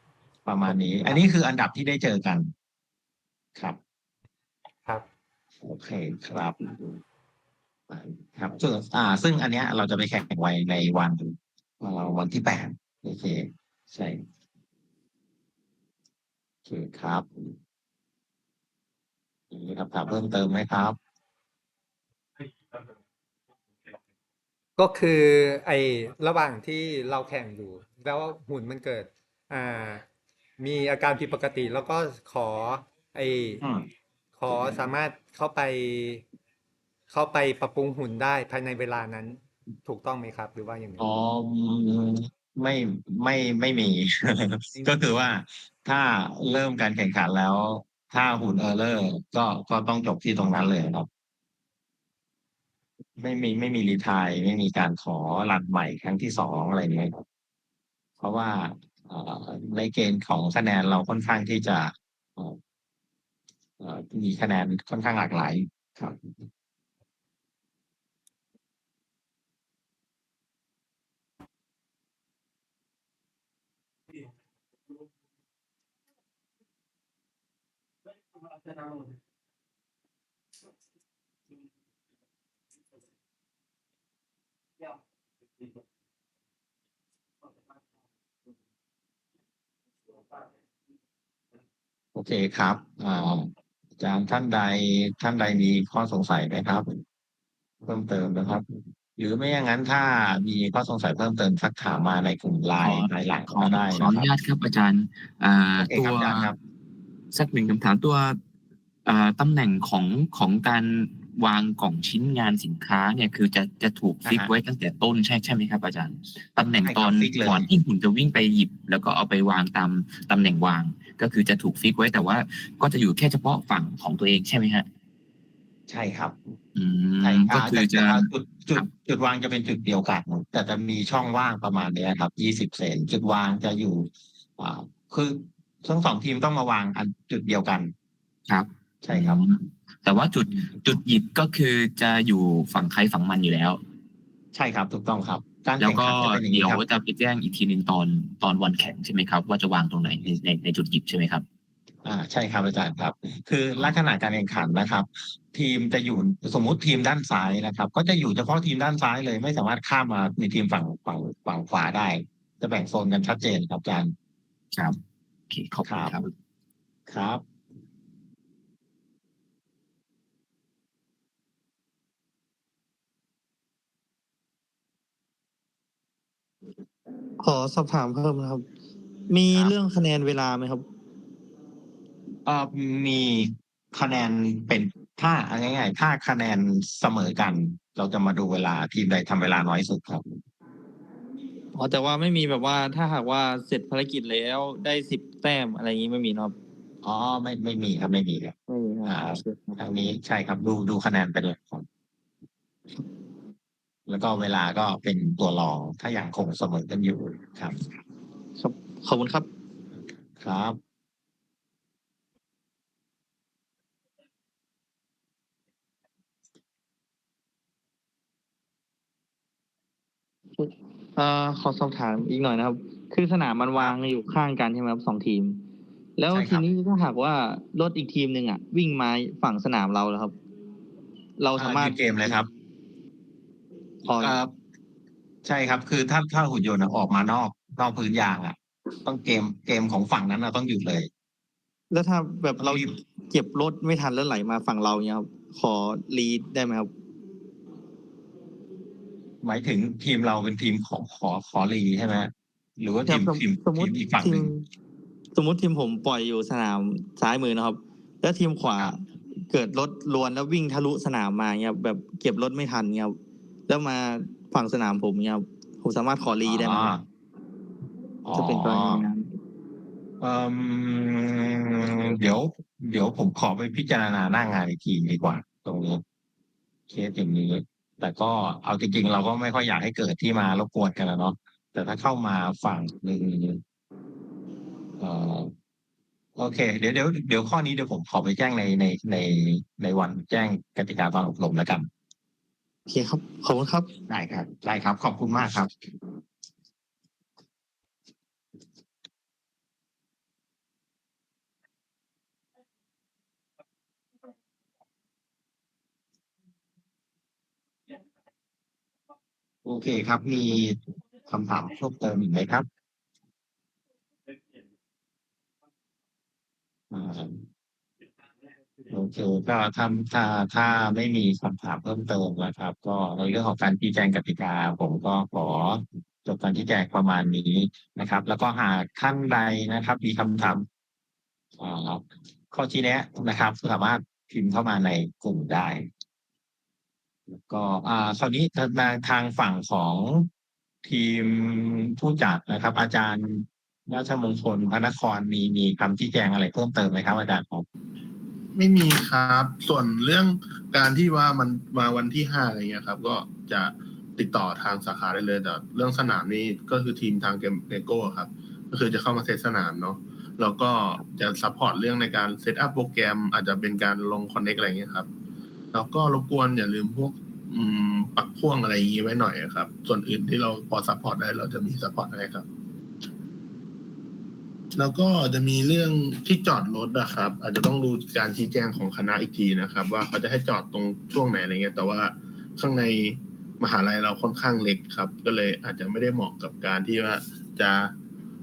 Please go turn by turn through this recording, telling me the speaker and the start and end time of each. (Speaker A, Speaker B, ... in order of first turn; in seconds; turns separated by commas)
Speaker A: 0.5-2.5, Speaker B: 0.7-1.2, Speaker A: 5.6-7.0, Speaker A: 7.9-14.2, Speaker A: 16.6-17.6, Speaker A: 19.5-21.0, Speaker B: 24.8-30.0, Speaker B: 30.6-33.6, Speaker A: 33.6-33.9, Speaker B: 34.4-36.2, Speaker A: 34.5-34.8, Speaker B: 37.1-41.0, Speaker A: 41.0-51.1, Speaker A: 53.2-57.2, Speaker A: 58.2-62.6, Speaker A: 63.8-66.3, Speaker A: 92.1-97.0, Speaker A: 97.8-104.3, Speaker C: 102.8-106.5, Speaker A: 105.8-106.6, Speaker C: 107.3-108.4, Speaker C: 109.0-124.9, Speaker A: 114.2-114.5, Speaker A: 116.8-117.7, Speaker A: 125.9-126.5, Speaker C: 126.7-128.9, Speaker A: 127.2-137.9, Speaker C: 138.5-143.8, Speaker A: 139.0-139.4, Speaker A: 144.5-146.8, Speaker C: 145.8-151.4, Speaker A: 152.0-164.1, Speaker C: 165.5-166.3, Speaker A: 165.8-166.2, Speaker A: 167.1-167.4, Speaker D: 177.4-178.7, Speaker D: 179.3-180.8, Speaker A: 182.4-190.4, Speaker D: 191.7-196.6, Speaker A: 197.0-201.8, Speaker D: 198.7-199.8, Speaker A: 204.1-207.9, Speaker D: 208.6-209.5, Speaker A: 210.4-210.8, Speaker D: 220.6-225.6, Speaker D: 226.2-230.3, Speaker A: 226.3-226.7, Speaker D: 231.4-232.4, Speaker A: 231.6-232.5, Speaker D: 234.0-234.4, Speaker A: 234.1-234.5, Speaker A: 235.4-241.1, Speaker D: 241.9-246.9, Speaker A: 242.6-243.0, Speaker A: 249.4-254.5, Speaker D: 253.1-254.6, Speaker D: 255.3-263.2, Speaker D: 263.7-266.9, Speaker A: 266.4-267.0, Speaker A: 268.2-269.1, Speaker D: 268.3-269.3, Speaker A: 270.2-276.0, Speaker A: 276.9-283.6, Speaker A: 285.0-285.5, Speaker A: 286.4-291.9, Speaker D: 292.9-293.9, Speaker A: 294.1-295.7, Speaker A: 309.6-312.7, Speaker A: 316.9-317.4, Speaker A: 318.9-330.7, Speaker A: 331.6-335.9, Speaker A: 337.3-340.3, Speaker A: 340.8-347.6, Speaker E: 348.5-365.1, Speaker E: 365.7-372.4, Speaker E: 374.8-387.9